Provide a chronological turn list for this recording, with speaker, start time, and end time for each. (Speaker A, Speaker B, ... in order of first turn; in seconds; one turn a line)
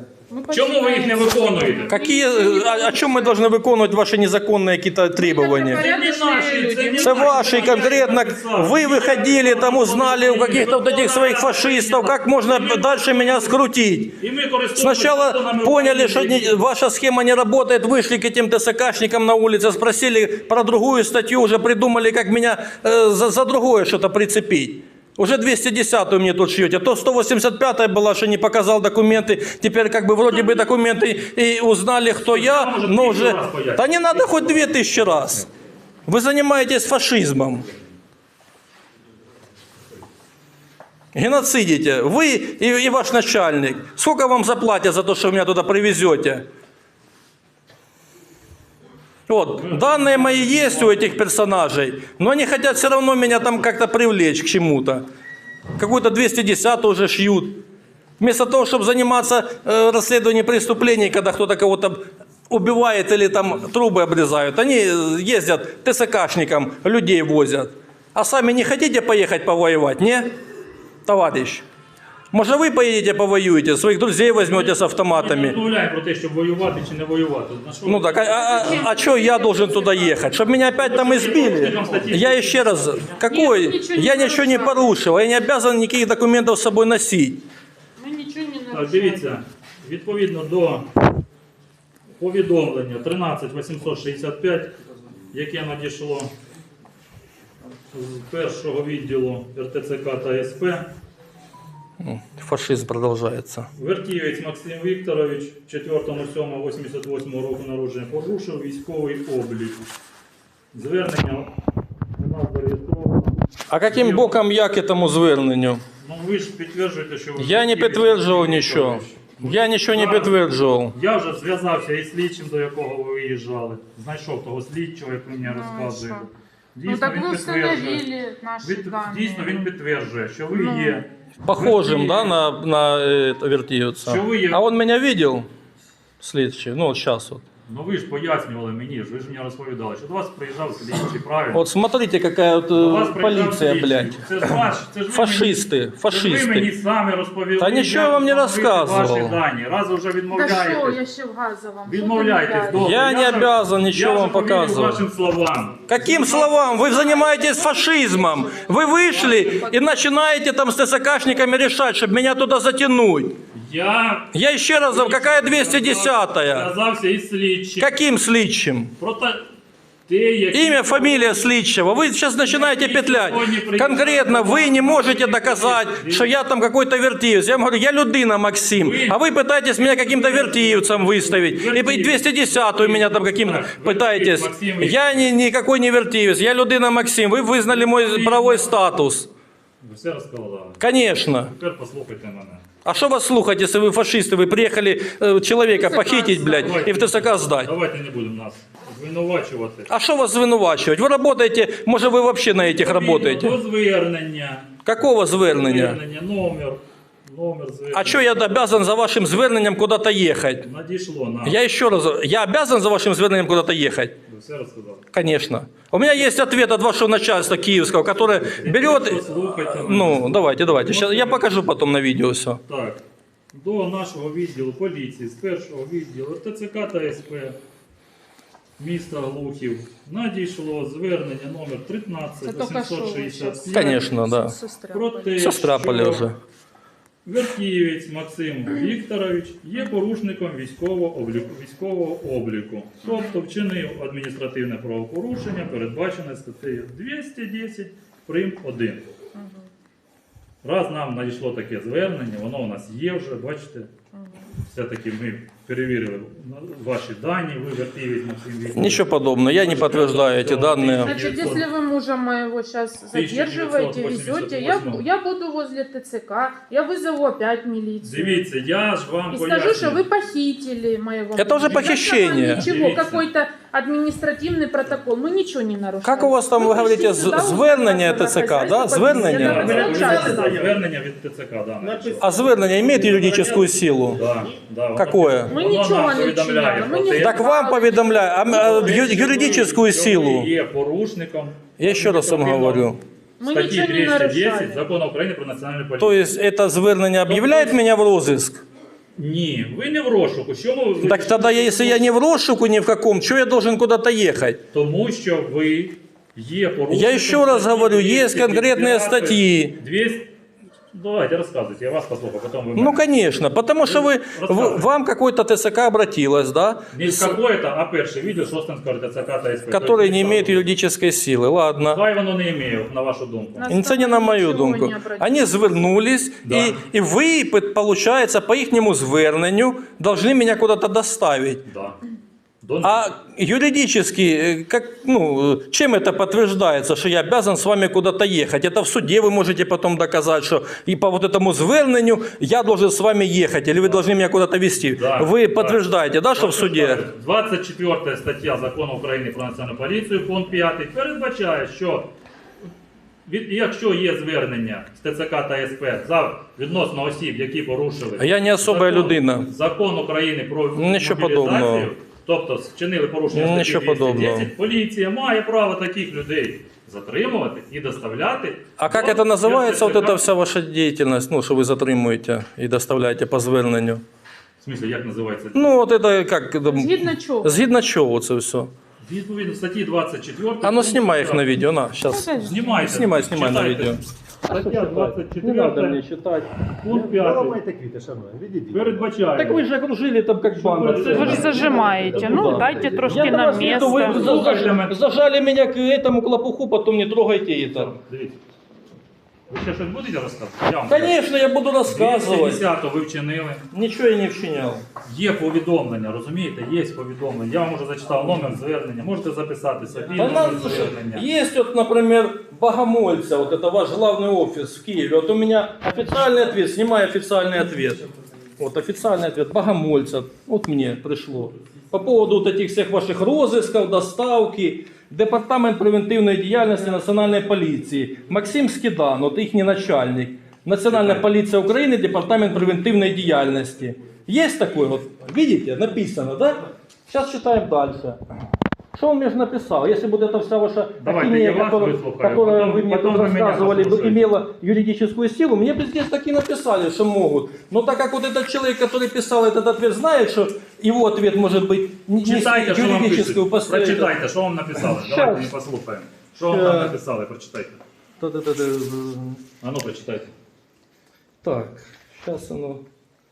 Speaker A: 0.3-3.4
Speaker B: 0.5-1.9
Speaker C: 1.9-5.8
Speaker A: 5.2-7.9
Speaker B: 5.7-13.6
Speaker C: 7.0-14.1
Speaker B: 14.2-16.6
Speaker C: 14.8-35.4
Speaker A: 30.3-30.6
Speaker B: 32.2-35.5
Speaker C: 36.1-37.7
Speaker C: 41.1-46.5
Speaker C: 49.3-55.0
Speaker B: 49.6-51.1
Speaker C: 55.8-57.6
Speaker C: 58.2-70.3
Speaker C: 71.0-71.6
Speaker C: 72.3-75.6
Speaker B: 74.4-78.8
Speaker C: 77.8-87.4
Speaker A: 78.3-80.3
Speaker B: 80.7-83.2
Speaker A: 83.2-85.0
Speaker A: 88.0-89.3
Speaker B: 88.7-90.9
Speaker B: 92.2-94.7
Speaker B: 95.3-96.3
Speaker B: 97.9-100.9
Speaker C: 102.0-103.7
Speaker B: 103.8-109.8
Speaker B: 110.7-111.5
Speaker B: 112.2-114.4
Speaker C: 113.7-115.8
Speaker B: 116.0-120.4
Speaker C: 117.4-120.9
Speaker B: 120.9-128.0
Speaker A: 125.4-126.2
Speaker A: 126.8-129.6
Speaker B: 128.6-132.4
Speaker A: 130.5-131.0
Speaker C: 131.4-135.5
Speaker B: 134.0-134.6
Speaker C: 136.2-137.4
Speaker B: 137.7-141.6
Speaker C: 141.5-146.7
Speaker B: 142.8-151.0
Speaker C: 147.6-149.4
Speaker A: 150.3-152.8
Speaker B: 151.8-156.5
Speaker C: 152.7-155.0
Speaker C: 155.9-163.3
Speaker A: 156.2-159.7
Speaker B: 159.1-159.6
Speaker B: 163.5-164.3
Speaker C: 164.3-166.7
Speaker B: 164.8-168.0
Speaker C: 167.8-168.9
Speaker B: 169.0-169.4
Speaker B: 170.1-171.5
Speaker C: 170.5-189.3
Speaker B: 172.4-176.3
Speaker B: 178.7-179.2
Speaker B: 179.7-185.2
Speaker B: 187.6-188.8
Speaker B: 189.8-190.8
Speaker C: 190.8-191.5
Speaker B: 191.4-192.6
Speaker C: 192.8-197.7
Speaker A: 195.7-196.8
Speaker B: 196.5-199.9
Speaker C: 199.9-203.6
Speaker B: 202.7-204.7
Speaker C: 204.8-206.0
Speaker B: 205.3-208.3
Speaker C: 207.9-210.7
Speaker B: 210.6-211.6
Speaker C: 211.4-214.1
Speaker B: 214.3-215.1
Speaker C: 215.1-222.6
Speaker B: 218.2-221.6
Speaker B: 222.7-223.0
Speaker B: 223.5-227.6
Speaker B: 228.8-234.0
Speaker A: 232.4-235.5
Speaker C: 233.7-234.6
Speaker B: 234.9-236.3
Speaker C: 235.4-236.3
Speaker B: 237.2-249.1
Speaker A: 249.3-249.7
Speaker B: 250.6-253.9
Speaker A: 254.1-254.4
Speaker B: 254.6-261.7
Speaker C: 258.7-261.1
Speaker A: 261.0-268.4
Speaker B: 263.1-265.0
Speaker B: 268.0-270.0
Speaker A: 269.3-280.6
Speaker C: 271.4-272.7
Speaker B: 271.6-271.9
Speaker B: 272.5-273.2
Speaker C: 276.0-280.2
Speaker B: 279.3-287.4
Speaker D: 279.6-280.7
Speaker D: 281.8-283.7
Speaker C: 282.2-284.2
Speaker C: 284.9-285.5
Speaker A: 285.5-289.0
Speaker C: 287.1-290.5
Speaker B: 288.5-296.2
Speaker C: 291.8-293.0
Speaker A: 293.4-294.8
Speaker C: 296.0-298.6
Speaker B: 297.2-297.8
Speaker B: 299.1-302.1
Speaker C: 301.0-304.6
Speaker B: 304.7-310.3
Speaker C: 306.9-309.7
Speaker B: 310.9-313.0
Speaker C: 312.8-317.4
Speaker B: 313.8-314.9
Speaker B: 316.9-320.7
Speaker C: 319.7-322.0
Speaker B: 321.9-323.7
Speaker A: 323.6-325.8
Speaker C: 323.7-331.6
Speaker B: 326.4-326.8
Speaker B: 331.6-332.0
Speaker B: 332.6-333.1
Speaker C: 332.8-347.0
Speaker B: 344.8-352.1
Speaker B: 353.2-370.2
Speaker C: 358.2-359.5
Speaker C: 360.8-361.9
Speaker C: 363.3-364.5
Speaker C: 368.8-374.0
Speaker B: 374.6-375.8
Speaker C: 375.5-378.7
Speaker A: 376.6-377.5
Speaker B: 379.0-381.6
Speaker C: 380.6-386.5
Speaker A: 382.0-382.8
Speaker B: 382.4-386.0
Speaker B: 386.7-387.6
Speaker D: 386.9-389.1
Speaker B: 388.7-389.6
Speaker C: 389.3-397.9
Speaker B: 390.4-392.2
Speaker D: 390.9-393.9
Speaker A: 391.1-394.4
Speaker B: 393.7-394.9
Speaker B: 397.7-398.4
Speaker B: 399.5-401.1
Speaker C: 400.9-402.6
Speaker B: 401.8-403.6
Speaker C: 403.7-404.8
Speaker B: 405.0-411.3
Speaker C: 410.1-418.1
Speaker C: 418.6-438.2
Speaker B: 430.9-431.3
Speaker C: 438.9-454.1
Speaker B: 441.0-444.4
Speaker B: 452.2-457.8
Speaker C: 454.8-455.5
Speaker C: 456.4-457.0
Speaker C: 458.2-459.4
Speaker B: 459.6-460.3
Speaker C: 461.4-462.8